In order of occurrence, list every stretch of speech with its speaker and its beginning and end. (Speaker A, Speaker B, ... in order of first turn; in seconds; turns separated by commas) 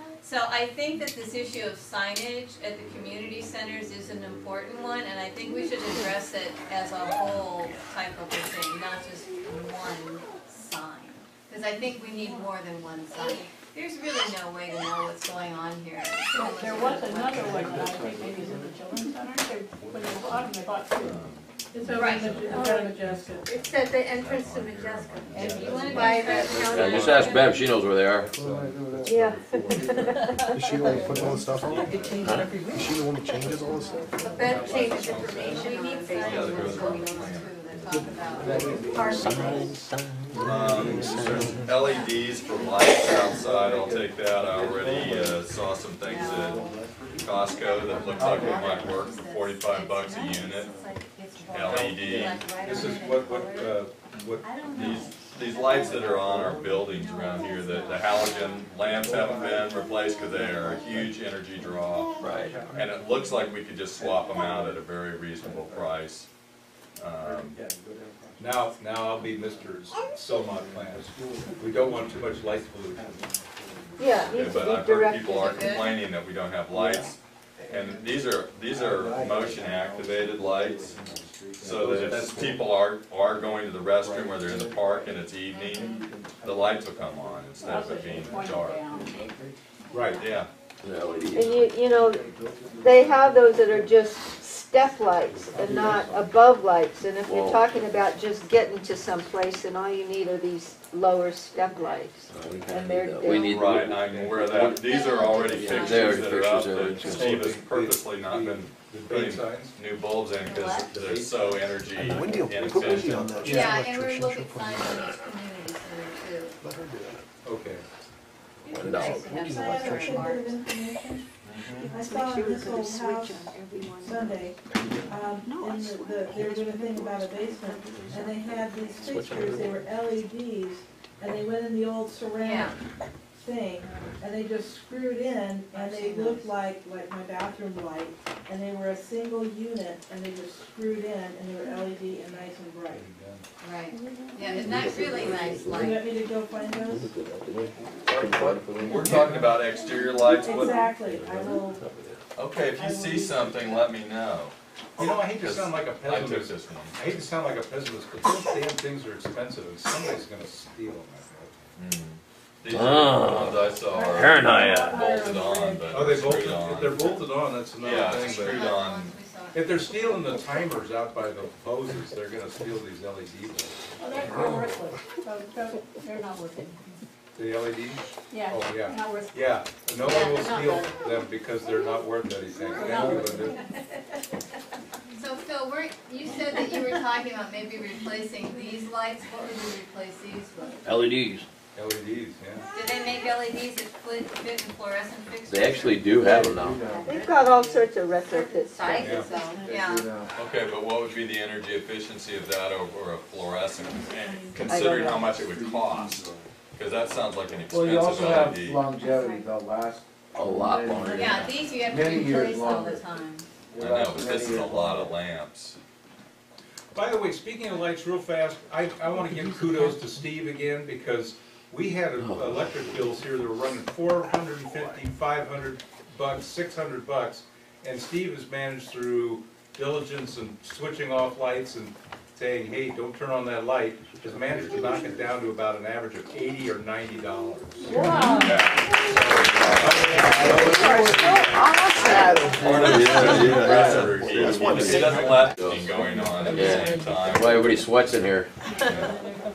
Speaker A: 0.2-17.6, Speaker B: 16.3-21.2, Speaker C: 17.3-18.9, Speaker D: 20.9-21.5, Speaker E: 21.7-23.5, Speaker A: 21.9-22.4, Speaker B: 22.1-22.8, Speaker D: 22.1-26.2, Speaker F: 22.5-22.9, Speaker F: 23.5-24.9, Speaker G: 25.3-26.9, Speaker A: 25.3-27.4, Speaker F: 25.6-27.4, Speaker H: 26.6-28.3, Speaker G: 28.1-29.9, Speaker C: 28.3-30.1, Speaker F: 29.1-31.0, Speaker I: 30.6-31.9, Speaker C: 30.8-31.5, Speaker G: 31.2-32.3, Speaker H: 32.1-33.1, Speaker I: 32.7-33.7, Speaker F: 33.3-33.6, Speaker A: 34.2-39.4, Speaker G: 34.2-34.9, Speaker D: 34.5-38.0, Speaker F: 34.5-37.4, Speaker C: 37.9-39.8, Speaker F: 38.9-39.7, Speaker H: 39.2-41.6, Speaker D: 40.4-46.6, Speaker C: 40.7-41.6, Speaker A: 41.6-43.1, Speaker C: 42.8-49.2, Speaker A: 46.0-46.8, Speaker D: 47.2-50.7, Speaker A: 47.6-53.9, Speaker D: 51.5-52.4, Speaker G: 51.6-55.1, Speaker A: 54.6-55.6, Speaker D: 54.7-66.3, Speaker C: 55.8-56.9, Speaker A: 57.0-58.7, Speaker C: 58.8-66.0, Speaker H: 62.2-62.6, Speaker D: 67.0-67.6, Speaker C: 67.2-74.5, Speaker G: 68.4-73.2, Speaker F: 74.0-75.8, Speaker D: 74.3-77.2, Speaker A: 75.3-75.9, Speaker C: 76.7-82.7, Speaker D: 77.7-81.0, Speaker D: 81.6-89.0, Speaker G: 81.8-82.4, Speaker C: 83.3-89.5, Speaker A: 85.6-86.0, Speaker B: 87.6-89.2, Speaker G: 89.9-90.3, Speaker D: 90.2-90.5, Speaker H: 90.8-91.8, Speaker F: 91.3-103.8, Speaker C: 91.6-94.1, Speaker C: 95.3-96.5, Speaker H: 97.2-97.7, Speaker H: 102.3-107.3, Speaker D: 103.4-113.5, Speaker G: 103.9-104.6, Speaker A: 104.7-106.4, Speaker G: 107.1-109.8, Speaker A: 110.4-111.0, Speaker G: 110.9-113.8, Speaker I: 112.0-115.0, Speaker A: 113.4-116.5, Speaker I: 116.6-117.2, Speaker G: 117.5-117.8, Speaker A: 118.6-120.6, Speaker H: 118.7-119.3, Speaker E: 118.9-121.3, Speaker D: 121.4-121.9, Speaker F: 121.8-124.4, Speaker E: 121.9-132.8, Speaker F: 125.5-126.9, Speaker F: 127.5-128.9, Speaker H: 129.1-129.8, Speaker A: 132.4-132.8, Speaker E: 133.3-143.1, Speaker A: 135.7-136.5, Speaker G: 142.9-143.4, Speaker A: 143.6-146.1, Speaker H: 144.7-145.8, Speaker E: 145.7-147.1, Speaker H: 146.9-149.1, Speaker D: 148.1-150.9, Speaker C: 148.5-148.7, Speaker G: 149.0-149.5, Speaker E: 150.4-151.8, Speaker H: 151.2-151.9, Speaker D: 152.3-154.5, Speaker E: 152.7-153.9, Speaker G: 155.0-161.5, Speaker D: 155.4-157.2, Speaker D: 161.8-167.2, Speaker H: 162.7-165.0, Speaker E: 163.9-165.9, Speaker G: 165.9-168.7, Speaker D: 167.8-169.2, Speaker A: 167.8-170.0, Speaker G: 169.5-174.3, Speaker B: 174.0-177.0, Speaker G: 177.4-183.6, Speaker B: 178.3-179.4, Speaker A: 180.0-180.9, Speaker D: 180.6-180.8, Speaker B: 182.7-183.4, Speaker C: 182.7-183.3, Speaker A: 185.2-190.8, Speaker H: 190.8-191.5, Speaker G: 191.8-192.7, Speaker A: 192.7-200.1, Speaker H: 195.5-196.8, Speaker C: 196.2-197.1, Speaker F: 197.1-199.2, Speaker G: 198.9-199.3, Speaker E: 199.4-199.8, Speaker C: 199.6-200.3, Speaker D: 200.4-208.9, Speaker E: 204.1-204.7, Speaker F: 204.7-205.3, Speaker C: 205.6-206.0, Speaker C: 207.7-213.1, Speaker A: 209.0-209.4, Speaker H: 210.3-211.8, Speaker A: 211.1-213.5, Speaker C: 213.7-215.2, Speaker D: 213.8-215.8, Speaker G: 216.9-238.0, Speaker H: 222.2-223.2, Speaker D: 234.4-235.1, Speaker B: 237.8-238.7, Speaker D: 238.4-238.8, Speaker G: 239.0-240.9, Speaker D: 239.6-240.2, Speaker C: 240.2-241.5, Speaker F: 240.5-242.7, Speaker I: 241.8-247.1, Speaker D: 242.6-248.3, Speaker H: 242.8-245.9, Speaker H: 246.4-248.5, Speaker D: 248.8-249.1